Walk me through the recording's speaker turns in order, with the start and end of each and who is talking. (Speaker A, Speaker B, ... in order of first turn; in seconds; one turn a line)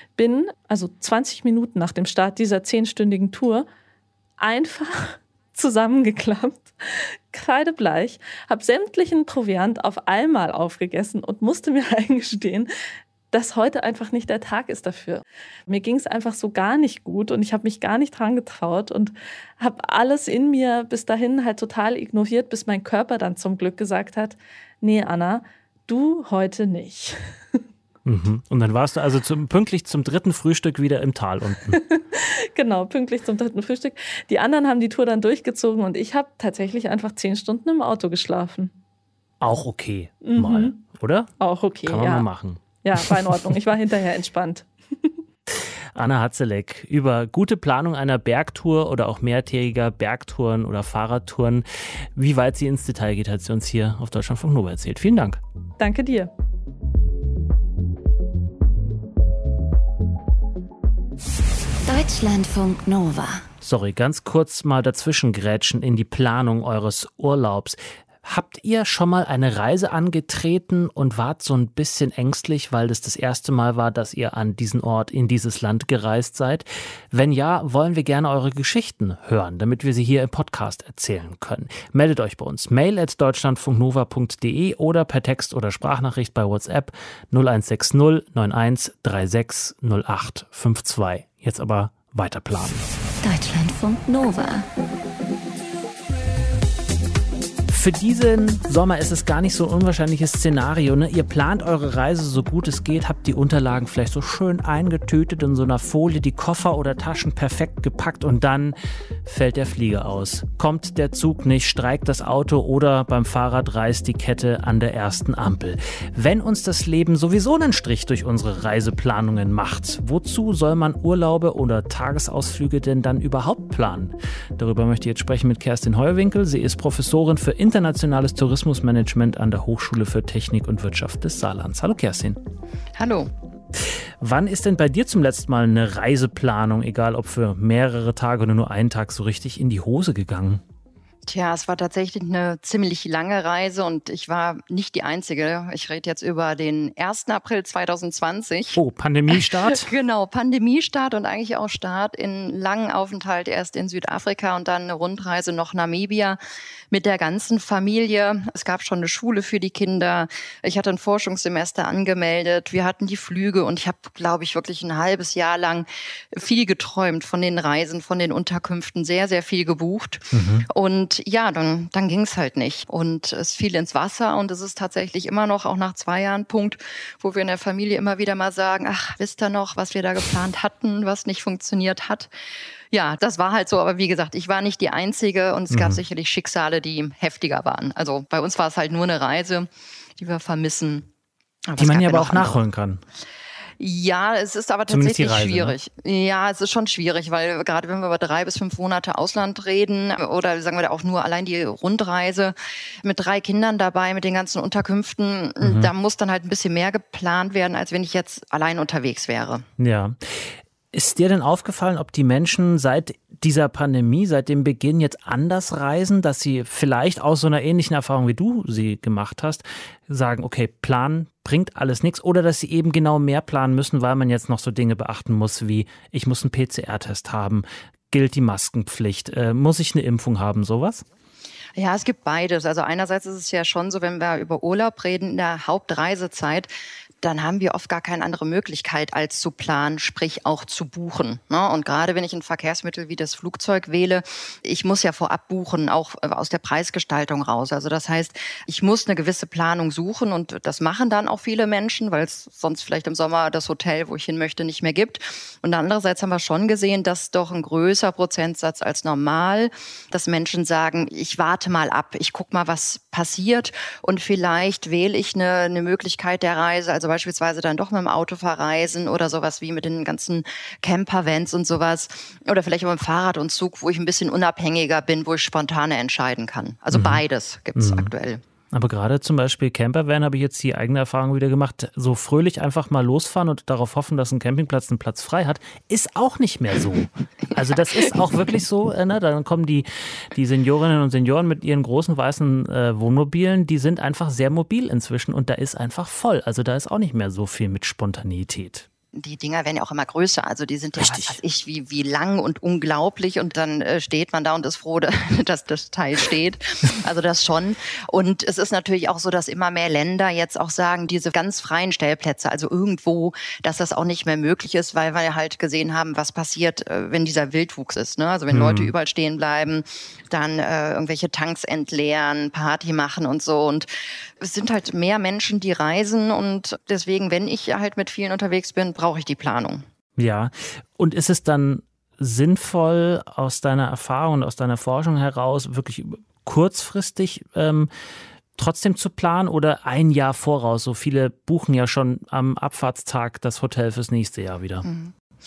Speaker A: 0.1-3.6
Speaker A: 4.4-12.7
Speaker A: 13.3-27.6
Speaker B: 28.0-31.8
Speaker A: 31.7-38.7
Speaker B: 39.4-41.3
Speaker A: 40.2-40.8
Speaker A: 41.4-42.3
Speaker B: 41.9-42.6
Speaker A: 42.8-45.1
Speaker B: 45.9-55.4
Speaker A: 55.8-56.3
Speaker C: 61.8-63.5
Speaker B: 63.6-92.8
Speaker C: 93.2-94.7
Speaker B: 97.7-132.4
Speaker D: 132.9-133.3
Speaker B: 134.2-140.6
Speaker D: 141.2-148.8
Speaker B: 148.7-149.9
Speaker D: 149.3-156.4
Speaker D: 156.9-182.3
Speaker B: 170.3-170.7
Speaker D: 182.9-191.1
Speaker B: 185.7-186.0
Speaker D: 191.7-192.6
Speaker B: 191.8-193.0
Speaker D: 193.8-209.6
Speaker B: 194.9-195.8
Speaker B: 205.6-205.9
Speaker B: 209.8-231.0
Speaker D: 231.8-236.7
Speaker D: 237.2-278.4
Speaker B: 276.9-277.2
Speaker B: 277.8-278.1
Speaker B: 278.7-298.9
Speaker D: 299.1-323.9
Speaker B: 301.0-301.4
Speaker B: 318.5-318.9
Speaker D: 324.4-329.8
Speaker B: 330.2-337.9
Speaker B: 338.6-344.9
Speaker D: 344.8-345.1